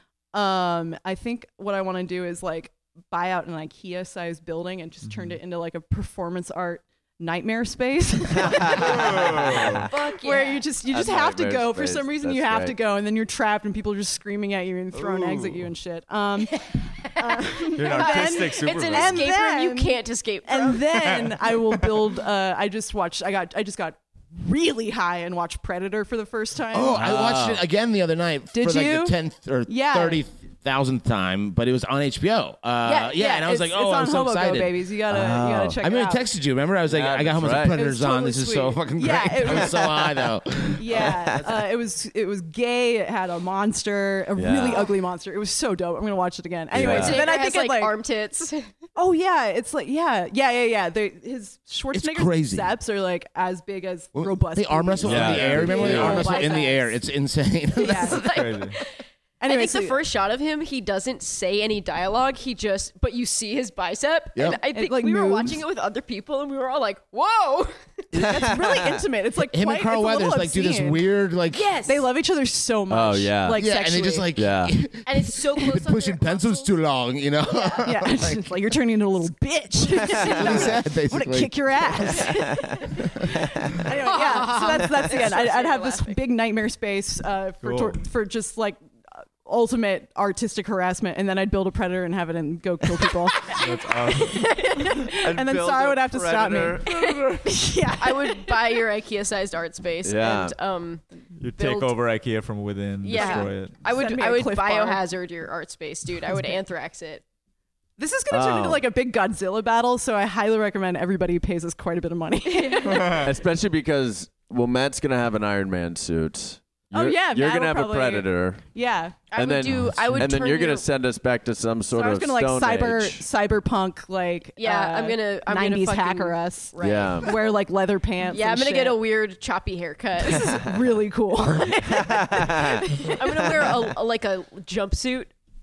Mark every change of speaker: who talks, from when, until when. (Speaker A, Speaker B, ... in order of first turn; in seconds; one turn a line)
Speaker A: 0.3-27.4
Speaker B: 5.0-5.4
Speaker C: 8.4-9.8
Speaker B: 8.8-9.8
Speaker D: 9.9-10.6
Speaker C: 10.9-12.8
Speaker B: 14.9-15.7
Speaker D: 17.1-20.9
Speaker B: 17.7-19.2
Speaker B: 21.2-21.6
Speaker E: 26.7-41.1
Speaker C: 26.9-27.6
Speaker A: 28.5-30.2
Speaker D: 32.8-33.1
Speaker A: 33.1-36.2
Speaker C: 35.1-35.8
Speaker C: 36.9-37.8
Speaker A: 37.7-40.2
Speaker C: 39.5-39.9
Speaker A: 40.8-48.0
Speaker C: 40.9-41.6
Speaker C: 44.3-45.0
Speaker C: 46.7-47.3
Speaker D: 46.8-48.7
Speaker A: 49.0-56.9
Speaker E: 51.9-52.7
Speaker E: 54.1-58.2
Speaker C: 55.0-56.2
Speaker D: 55.7-56.9
Speaker D: 57.8-68.3
Speaker A: 57.8-58.3
Speaker B: 58.2-58.8
Speaker A: 59.4-60.0
Speaker A: 64.7-65.6
Speaker C: 68.1-68.9
Speaker A: 68.2-71.1
Speaker E: 69.4-71.8
Speaker D: 71.5-72.0
Speaker A: 71.8-74.3
Speaker C: 72.9-73.6
Speaker E: 73.6-78.5
Speaker C: 74.3-74.8
Speaker D: 75.0-76.7
Speaker D: 77.4-77.8
Speaker A: 77.8-83.1
Speaker D: 79.9-80.6
Speaker E: 80.3-82.2
Speaker D: 82.2-82.9
Speaker C: 82.3-82.7
Speaker A: 83.8-98.8
Speaker D: 84.0-86.2
Speaker B: 87.6-88.0
Speaker B: 93.5-94.6
Speaker D: 94.3-95.0
Speaker C: 95.2-97.4
Speaker D: 98.0-101.9
Speaker C: 100.0-100.5
Speaker B: 101.4-103.8
Speaker D: 103.0-107.2
Speaker A: 103.1-105.0
Speaker A: 108.0-113.3
Speaker C: 108.3-108.8
Speaker D: 112.5-113.2
Speaker C: 113.2-118.6
Speaker A: 116.9-119.2
Speaker D: 119.3-120.9
Speaker C: 119.3-123.2
Speaker B: 119.7-120.2
Speaker A: 121.9-129.0
Speaker D: 124.6-127.5
Speaker C: 126.8-127.3
Speaker D: 128.3-130.6
Speaker A: 130.2-133.5
Speaker C: 132.0-132.8
Speaker D: 132.9-135.3